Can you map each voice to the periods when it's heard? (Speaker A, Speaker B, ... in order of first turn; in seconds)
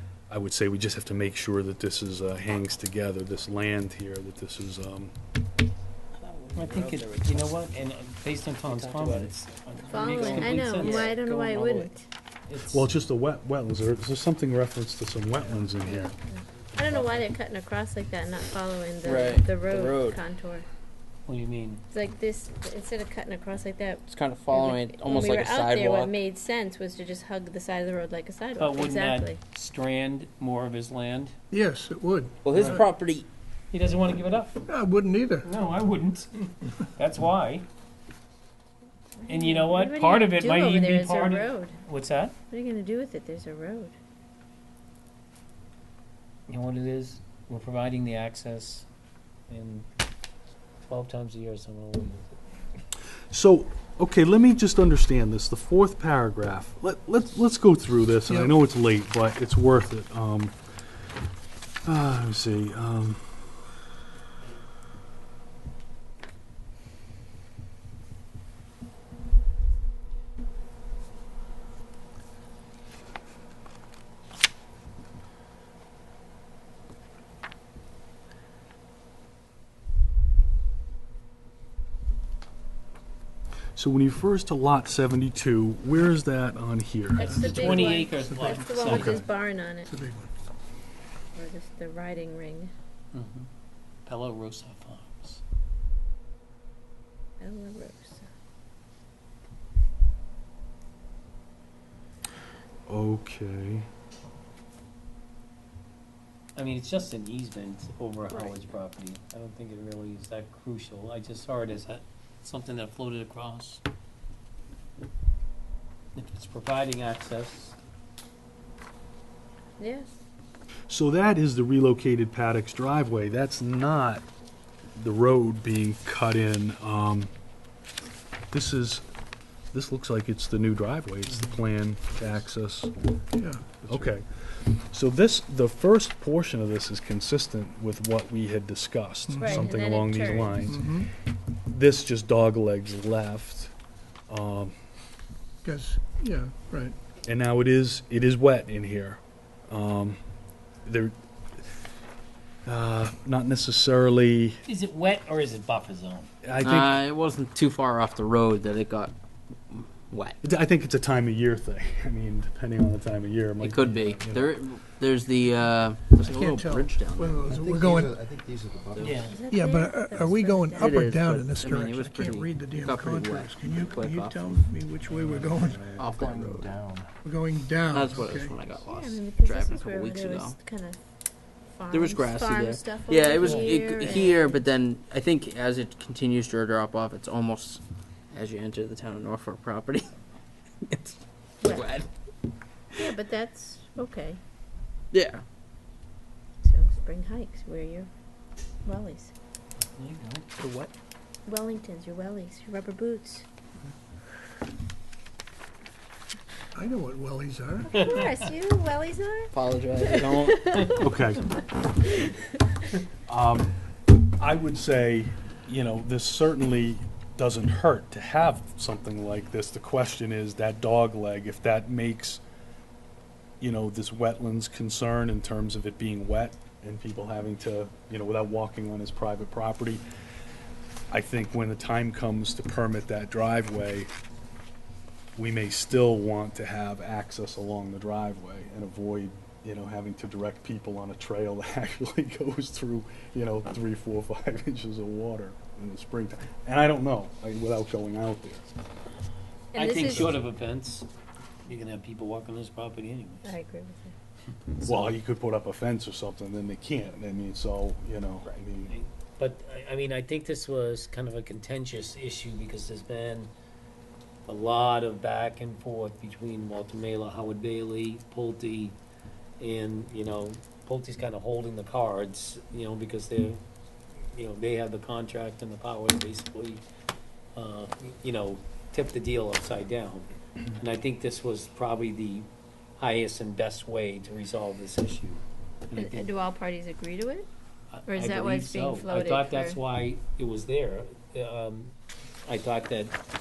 Speaker A: 0.3-5.2, 12.6-16.1, 53.3-60.5, 61.8-63.2, 83.7-87.3, 102.9-103.9, 120.9-124.2, 125.0-127.3, 128.5-129.0, 129.7-132.9, 133.9-141.0, 141.7-143.7, 144.3-144.8, 147.2-150.2, 150.8-151.2, 152.7-154.6, 156.4-157.0, 160.4-164.6, 211.0-211.4, 213.3-213.7, 214.4-222.4, 223.6-230.0, 231.1-234.1, 235.3-248.7, 254.8-258.9
Speaker B: 6.2-7.7, 8.6-9.3, 9.8-11.9, 19.0-20.2, 24.1-26.1, 32.4-33.3, 156.6-159.1, 159.7-160.4, 163.6-167.4, 170.8-174.6, 176.0-176.7, 177.9-180.6, 181.9-187.8, 188.3-190.2, 190.8-192.1, 195.1-195.4, 209.5-210.6
Speaker C: 6.5-11.1, 12.5-12.8, 21.3-21.8, 28.6-31.3, 32.5-32.8, 33.7-34.6, 35.4-37.7, 39.3-42.3, 46.5-48.9, 49.5-49.9, 50.9-52.4, 87.2-89.2, 93.1-93.5, 94.0-95.4, 106.5-113.8, 116.1-117.8, 154.7-156.3, 169.0-169.4, 175.1-175.5, 183.3-184.2, 199.9-200.5, 208.0-208.3, 210.7-211.0, 249.7-251.1, 251.7-253.6, 258.9-263.5, 264.5-269.0, 269.6-273.6, 274.3-276.8, 277.6-286.3, 287.9-293.2
Speaker D: 9.9-12.1, 16.7-20.7, 21.9-29.4, 39.2-41.8, 42.5-43.9, 87.2-89.9, 91.3-92.7, 97.4-98.3, 119.8-120.1, 139.4-140.7, 169.2-171.0, 178.9-181.0, 181.7-184.6, 191.6-192.0, 193.0-194.4, 196.6-198.1, 198.8-199.3, 201.4-203.4, 208.0-211.1, 211.8-212.8, 249.7-250.3, 253.4-254.2, 285.9-287.5, 288.1-289.8
Speaker E: 31.5-32.8, 34.7-35.5, 58.2-58.6, 87.2-89.3, 89.8-90.3, 133.3-134.1, 139.3-139.7, 140.7-141.1, 145.6-146.9, 166.2-168.2, 169.5-175.9, 177.2-178.5, 206.8-208.1
Speaker F: 167.4-169.4, 175.5-177.0